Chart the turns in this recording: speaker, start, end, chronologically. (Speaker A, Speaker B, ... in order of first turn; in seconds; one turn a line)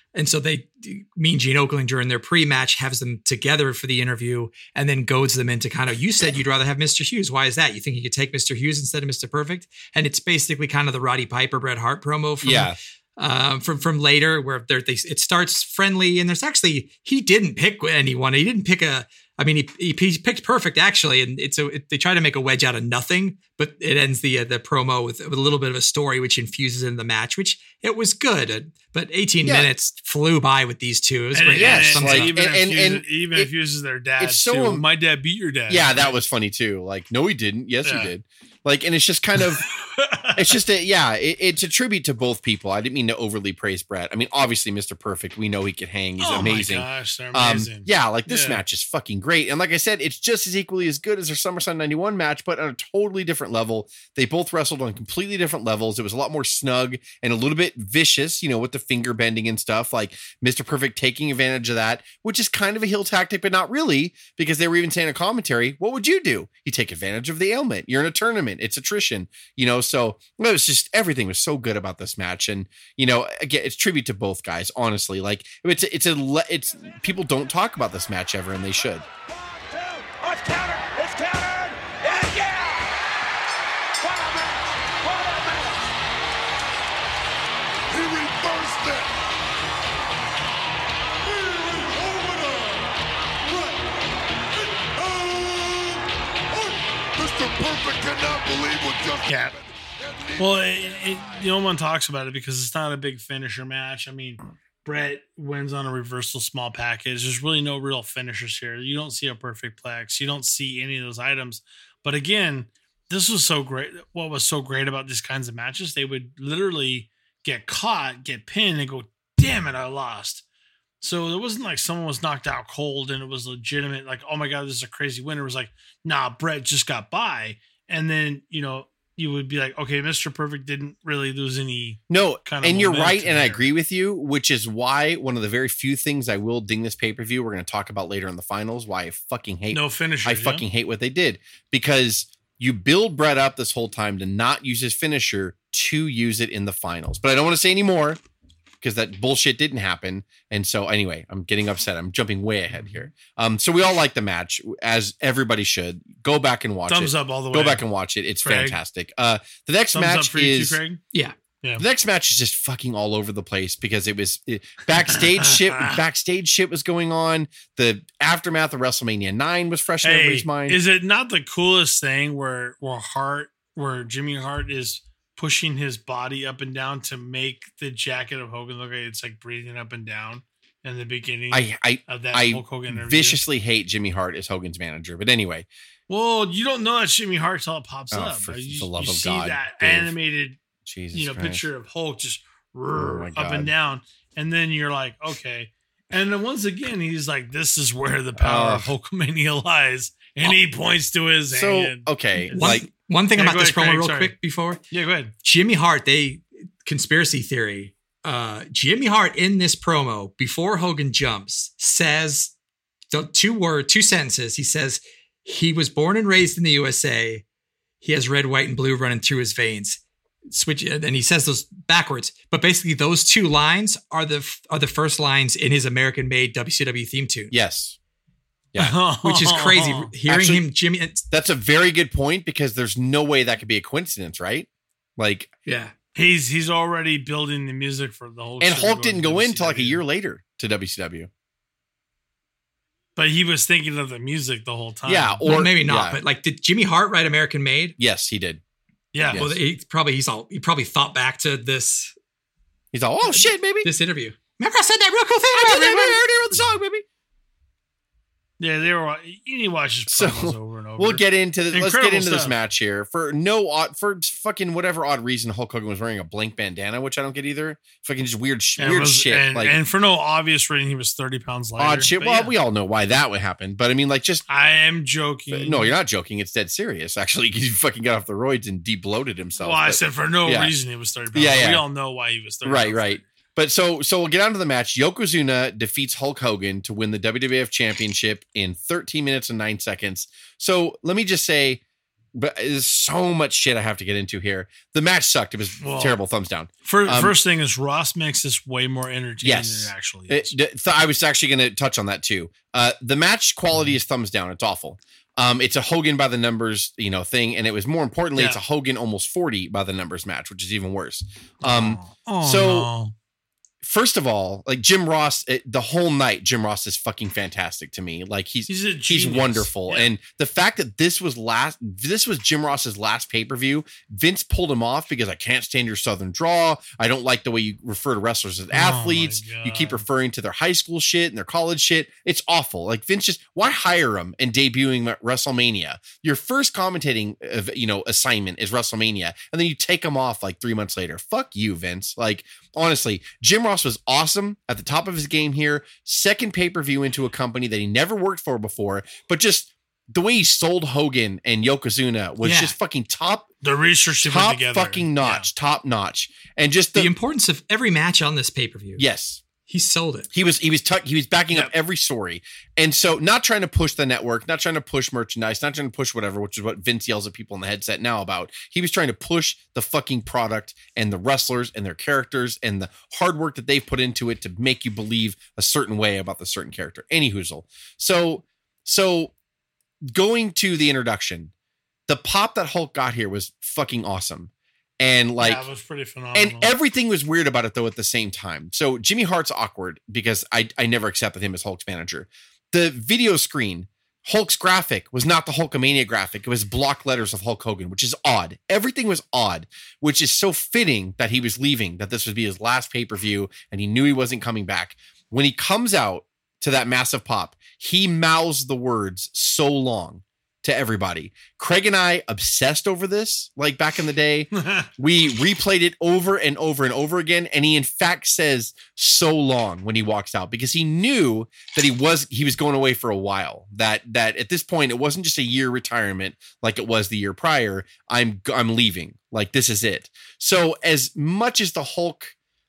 Speaker A: 0.1-32.4
Speaker B: 12.4-12.8
Speaker B: 29.4-29.7
Speaker C: 31.3-36.1
Speaker B: 31.5-33.5
Speaker B: 34.2-34.9
Speaker B: 35.7-39.7
Speaker C: 37.8-38.1
Speaker C: 39.6-40.6
Speaker B: 40.4-79.1
Speaker C: 46.2-48.6
Speaker D: 79.3-83.0
Speaker D: 84.0-85.9
Speaker E: 87.9-89.2
Speaker E: 91.2-92.9
Speaker E: 93.5-93.8
Speaker E: 94.8-101.4
Speaker C: 99.2-99.5
Speaker C: 100.4-120.4
Speaker C: 121.0-133.6
Speaker B: 132.1-148.2
Speaker C: 139.7-140.7
Speaker B: 148.8-160.8
Speaker C: 152.7-153.1
Speaker C: 156.9-157.8
Speaker C: 158.4-158.8
Speaker C: 159.9-161.0
Speaker B: 161.8-170.8
Speaker C: 165.2-166.0
Speaker C: 170.0-183.4
Speaker B: 181.5-185.7
Speaker C: 186.1-190.6
Speaker B: 188.1-190.1
Speaker B: 190.9-191.6
Speaker C: 191.1-202.8
Speaker B: 192.9-193.7
Speaker B: 198.4-198.9
Speaker B: 201.5-202.9
Speaker A: 202.5-204.8
Speaker C: 203.3-204.3
Speaker C: 204.9-205.3
Speaker A: 205.4-212.5
Speaker A: 213.1-217.4
Speaker A: 218.0-220.0
Speaker A: 220.5-227.5
Speaker B: 227.5-228.0
Speaker C: 228.8-230.1
Speaker A: 229.2-231.2
Speaker B: 230.3-230.6
Speaker B: 231.3-235.5
Speaker A: 235.7-235.9
Speaker C: 236.2-240.0
Speaker B: 238.6-241.3
Speaker C: 243.2-245.4
Speaker B: 245.1-246.2
Speaker A: 245.5-248.0
Speaker B: 248.0-248.6
Speaker C: 249.1-249.5
Speaker B: 249.3-249.6
Speaker A: 249.3-252.2
Speaker B: 252.9-253.9
Speaker A: 253.2-256.2
Speaker B: 255.5-257.1
Speaker C: 258.6-262.6
Speaker B: 260.1-269.8
Speaker C: 268.8-272.5
Speaker B: 271.8-274.5
Speaker C: 274.5-276.0
Speaker B: 275.5-280.7
Speaker C: 279.6-283.2
Speaker B: 281.3-281.8
Speaker B: 282.6-291.8
Speaker B: 292.3-297.4
Speaker C: 295.8-296.2
Speaker C: 296.9-300.6
Speaker B: 299.4-312.9
Speaker C: 308.4-308.6
Speaker C: 311.6-313.1
Speaker B: 313.8-353.5
Speaker C: 318.7-320.1
Speaker C: 328.7-330.0
Speaker A: 352.4-352.7
Speaker C: 353.6-355.5
Speaker B: 354.2-357.1
Speaker A: 356.9-359.1
Speaker B: 359.0-359.4
Speaker A: 359.7-360.3
Speaker B: 360.3-379.3
Speaker B: 380.0-381.5
Speaker B: 382.1-385.6
Speaker C: 385.4-386.7
Speaker B: 386.3-432.4
Speaker C: 414.6-414.9